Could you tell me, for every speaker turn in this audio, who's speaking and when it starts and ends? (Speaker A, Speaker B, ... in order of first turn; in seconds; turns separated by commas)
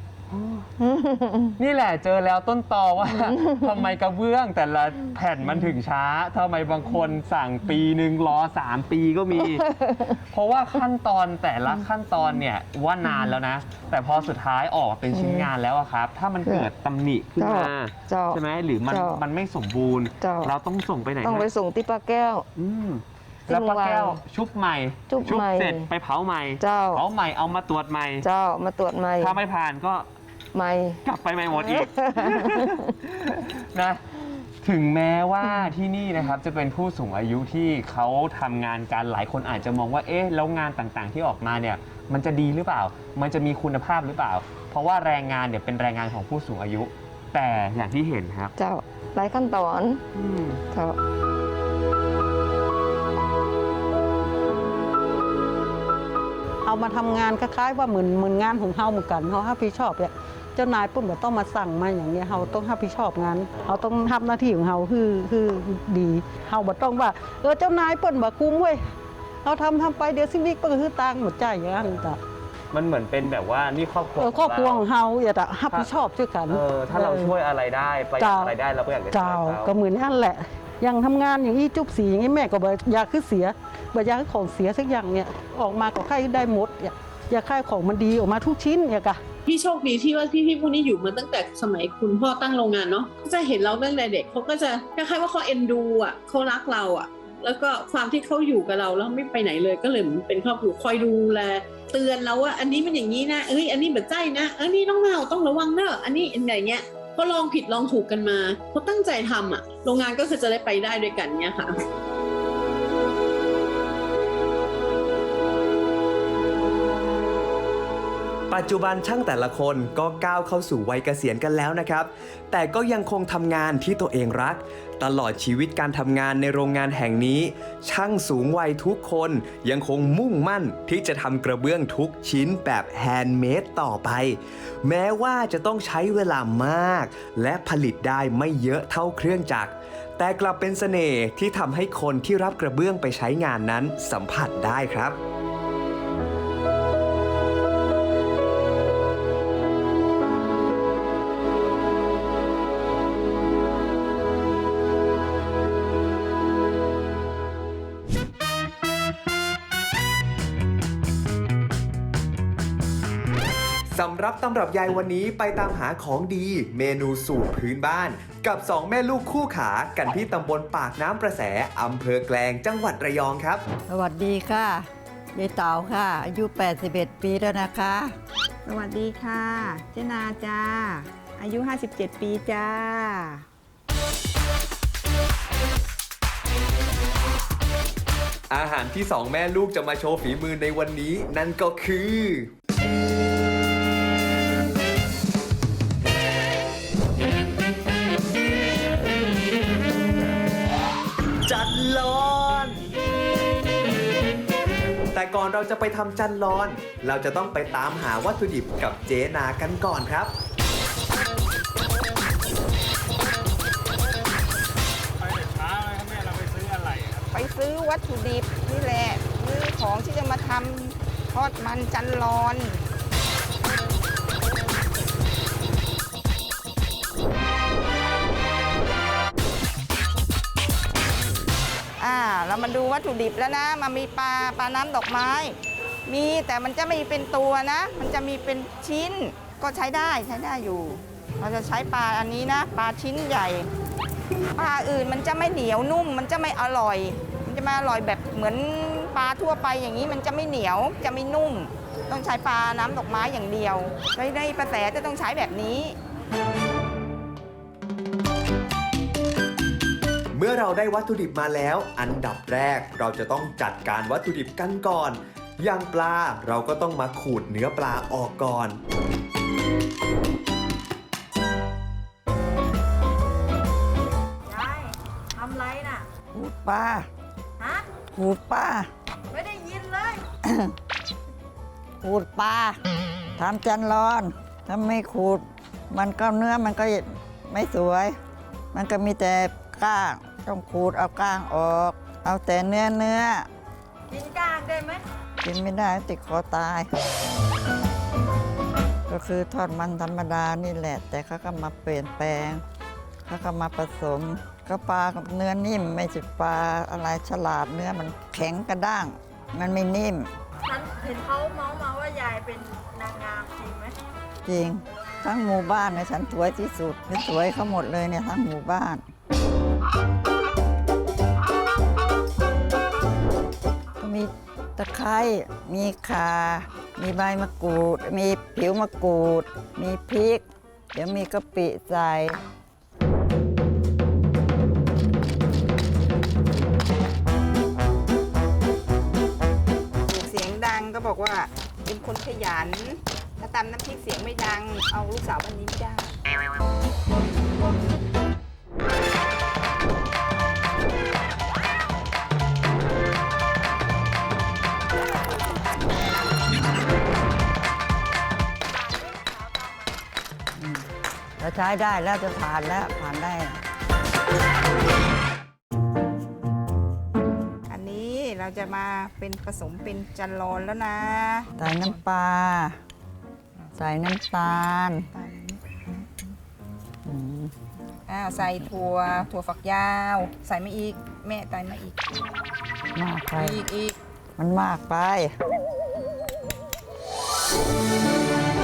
Speaker A: 0.3-0.7, Speaker B: 0.8-1.6, Speaker A: 1.6-9.7, Speaker B: 3.1-3.8, Speaker B: 9.4-10.2, Speaker A: 10.3-21.5, Speaker B: 13.0-13.3, Speaker B: 15.1-15.5, Speaker B: 17.4-19.2, Speaker B: 20.2-20.5, Speaker B: 21.2-22.4, Speaker A: 22.6-28.2, Speaker B: 23.5-24.2, Speaker B: 25.1-25.9, Speaker B: 26.6-27.0, Speaker B: 28.2-29.4, Speaker A: 29.2-30.1, Speaker B: 30.5-31.0, Speaker A: 31.0-34.0, Speaker B: 31.5-32.8, Speaker A: 34.6-48.5, Speaker B: 35.4-35.7, Speaker B: 48.6-50.0, Speaker A: 50.1-50.6, Speaker B: 50.7-51.0, Speaker C: 56.6-68.9, Speaker C: 69.4-72.2, Speaker A: 72.7-74.8, Speaker C: 74.2-77.3, Speaker A: 76.5-79.7, Speaker C: 78.2-78.5, Speaker C: 79.1-89.2, Speaker D: 89.5-111.8, Speaker E: 118.5-145.2, Speaker E: 163.9-173.6, Speaker F: 173.9-178.1, Speaker G: 178.6-183.4, Speaker E: 188.5-192.5, Speaker E: 201.4-202.8, Speaker E: 205.1-210.3, Speaker A: 216.6-217.0, Speaker G: 217.3-222.8, Speaker G: 232.0-235.6, Speaker G: 236.1-243.7, Speaker G: 244.6-255.9, Speaker E: 260.3-268.8, Speaker H: 274.5-276.1, Speaker F: 276.3-277.1, Speaker H: 277.6-277.9, Speaker F: 278.1-278.9, Speaker H: 279.3-280.2, Speaker F: 280.4-280.7, Speaker F: 282.0-282.8, Speaker F: 283.4-288.1, Speaker F: 288.7-293.5, Speaker H: 294.1-295.0, Speaker F: 295.4-296.9, Speaker F: 299.1-302.6, Speaker F: 303.2-310.3, Speaker H: 310.6-313.9, Speaker F: 314.4-319.1, Speaker F: 324.0-332.4, Speaker G: 340.0-346.2, Speaker H: 358.6-360.0, Speaker F: 360.6-360.9, Speaker F: 361.4-363.6, Speaker G: 367.7-372.0, Speaker F: 371.6-372.8, Speaker F: 373.7-375.1, Speaker G: 375.1-376.2, Speaker F: 377.0-377.5, Speaker G: 378.1-382.3, Speaker F: 382.9-383.6, Speaker G: 383.3-383.9, Speaker F: 384.4-385.3